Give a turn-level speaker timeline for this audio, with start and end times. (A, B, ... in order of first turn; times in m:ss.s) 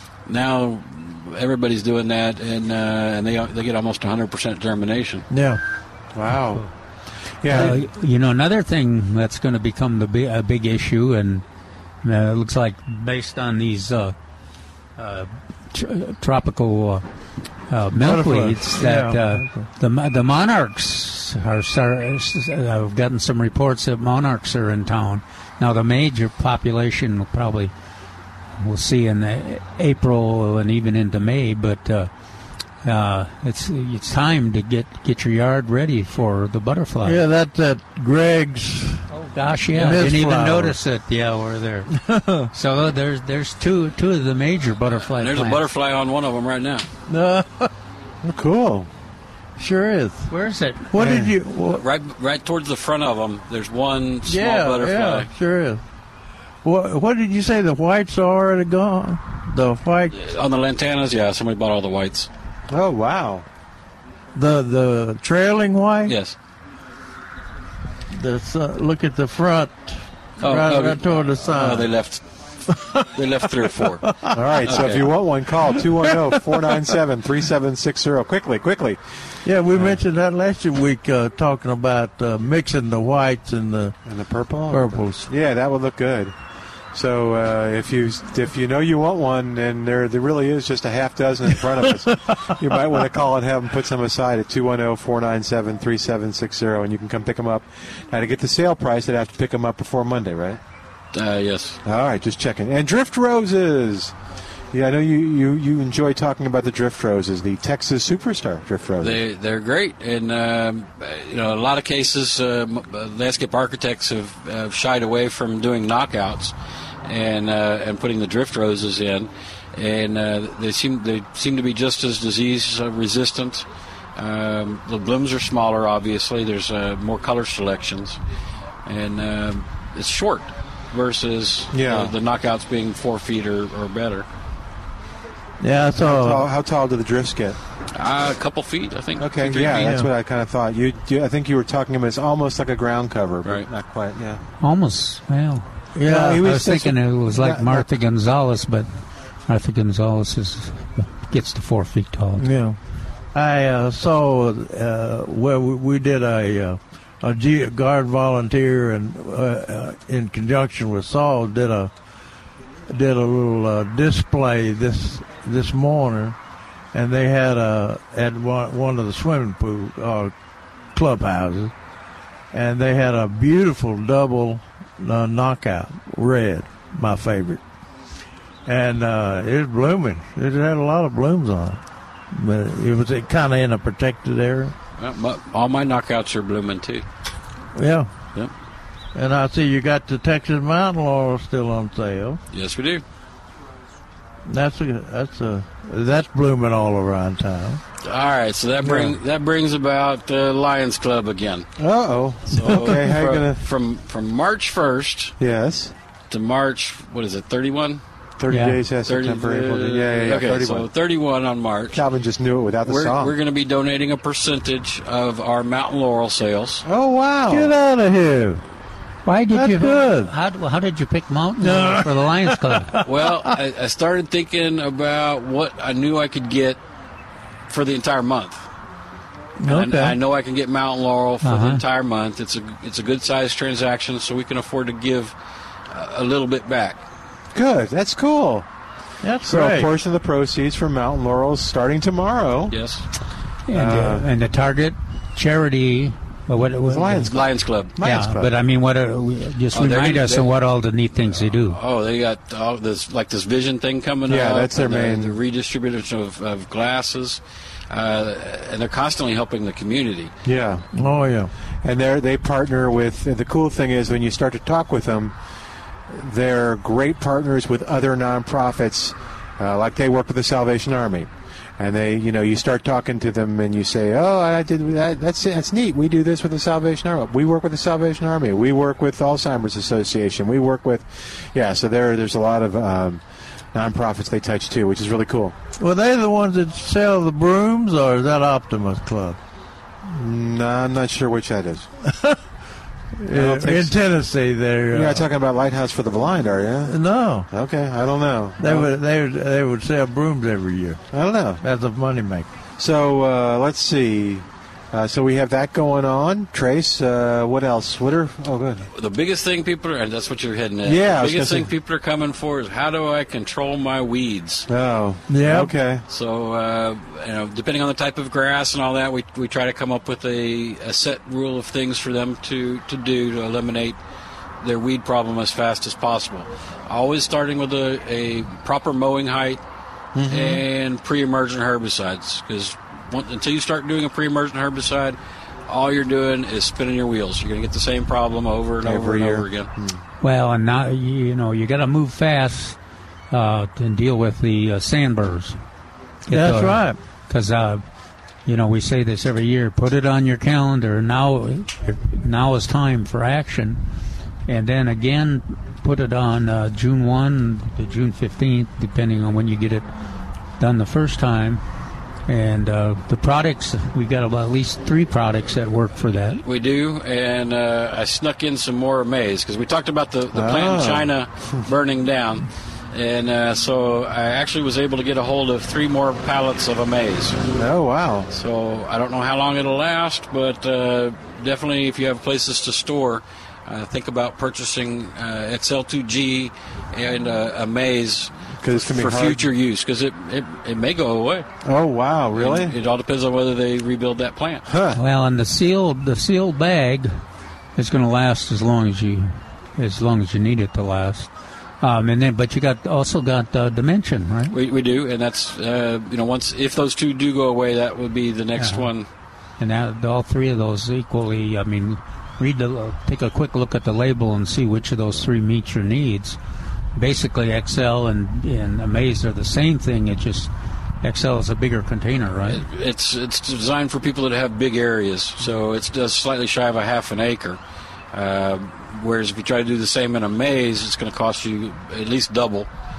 0:00.3-0:05.3 A
0:05.3-0:05.6 B
0:06.2-0:06.6 C
0:07.4-0:07.8 C
0:07.5-0:11.4 D
0:12.0-0:14.2 D
0:15.0-0:17.0 D
0:17.7-0:27.7 D
0:18.0-0:19.7 B
0:28.6-0:32.1 D
0:32.8-0:37.2 D
0:37.0-0:39.0 B
0:39.1-0:41.9 D
0:39.7-0:40.8 B
0:42.0-0:42.5 B
0:42.5-0:45.6 D
0:45.0-0:46.9 A
0:47.1-0:47.7 B
0:48.2-0:48.9 C
0:49.6-0:50.3 B
0:50.3-0:50.9 D
0:50.9-0:51.8 B
0:51.0-0:51.3 C
0:51.7-0:55.3 A
0:54.3-0:55.8 B
0:56.6-1:00.2 B
1:00.1-1:02.3 A
1:02.7-1:03.5 C
1:04.4-1:06.2 B
1:06.1-1:06.4 A
1:08.1-1:11.9 B
1:10.4-1:12.2 A
1:12.7-1:14.7 B
1:13.2-1:14.0 A
1:14.3-1:19.0 C
1:14.6-1:15.1 A
1:15.7-1:16.8 B
1:19.4-1:24.0 B
1:24.0-1:26.4 C
1:24.7-1:25.3 B
1:26.9-1:40.6 C
1:41.1-1:41.8 A
1:41.8-1:44.1 C
1:44.7-1:49.2 C
1:49.0-1:56.5 A
1:57.0-2:08.2 A
2:08.9-2:14.3 A
2:11.7-2:12.1 C
2:15.6-2:16.5 B
2:16.0-2:17.6 C
2:17.9-2:19.9 A
2:19.2-2:24.4 C
2:19.8-2:20.1 B
2:24.6-2:28.9 D
2:26.0-2:26.4 B
2:26.0-2:27.9 C
2:29.5-2:32.5 D
2:32.4-2:32.8 B
2:33.3-2:41.9 B
2:42.9-2:46.4 B
2:46.9-2:50.3 B
2:50.9-2:51.7 B
2:52.5-2:57.6 B
2:58.7-3:01.8 B
3:02.3-3:04.8 B
3:05.0-3:07.1 A
3:07.8-3:08.1 B
3:09.2-3:12.4 B
3:12.5-3:13.0 A
3:14.5-3:17.8 B
3:18.0-3:21.7 A
3:18.8-3:19.2 C
3:21.8-3:23.6 C
3:22.5-3:25.4 A
3:25.4-3:26.0 C
3:26.3-3:28.0 A
3:28.4-3:30.9 C
3:28.5-3:28.8 D
3:29.0-3:32.0 A
3:31.9-3:33.3 C
3:32.8-3:36.8 A
3:36.8-3:37.8 C
3:37.5-3:38.6 B
3:39.2-3:43.0 D
3:39.5-3:40.3 B
3:41.6-3:43.6 B
3:43.0-3:46.8 A
3:47.7-3:48.7 A
3:49.6-3:50.2 B
3:49.7-3:55.3 A
3:51.4-3:51.8 D
3:55.9-3:57.0 A
3:57.5-3:58.7 C
3:59.2-3:59.9 B
3:59.4-4:02.8 C
4:02.7-4:03.0 A
4:03.7-4:07.3 D
4:03.7-4:04.3 C
4:06.9-4:08.5 C
4:07.3-4:07.9 A
4:08.0-4:11.8 D
4:09.7-4:10.5 A
4:11.3-4:20.3 A
4:14.3-4:15.4 C
4:20.4-4:20.9 C
4:21.0-4:21.5 B
4:21.8-4:25.3 C
4:26.1-4:43.2 C
4:43.7-4:45.6 C
4:45.8-4:49.4 B
4:50.0-4:51.9 C
4:52.1-4:52.4 B
4:53.2-4:55.2 B
4:53.3-4:54.0 C
4:54.9-4:57.0 C
4:56.9-4:57.5 B
4:57.5-4:58.9 C
4:58.6-5:01.0 B
5:01.1-5:01.6 C
5:01.6-5:02.5 B
5:02.8-5:08.9 C
5:08.9-5:14.7 A
5:10.8-5:11.7 C
5:14.7-5:16.0 C
5:15.3-5:15.7 B
5:16.1-5:24.0 A
5:24.6-5:29.6 A
5:30.2-5:30.6 C
5:30.3-5:39.7 A
5:38.8-5:40.0 C
5:40.2-5:42.8 D
5:43.3-5:45.6 D
5:46.3-5:47.8 D
5:46.3-5:47.0 B
5:48.5-5:53.8 D
5:54.5-5:59.9 D
6:00.6-6:01.6 D
6:02.3-6:06.4 D
6:06.4-6:17.4 A
6:10.3-6:11.2 C
6:17.5-6:18.3 C
6:18.3-6:31.5 A
6:28.6-6:29.5 C
6:31.6-6:32.8 C
6:32.3-6:34.7 A
6:34.7-6:35.0 C
6:35.0-6:37.1 D
6:37.8-6:41.3 D
6:41.8-6:44.6 D
6:44.5-6:49.1 A
6:48.6-6:48.9 D
6:49.6-6:56.4 D
6:57.0-7:00.5 D
7:01.0-7:02.6 D
7:02.4-7:07.6 A
7:08.1-7:12.7 A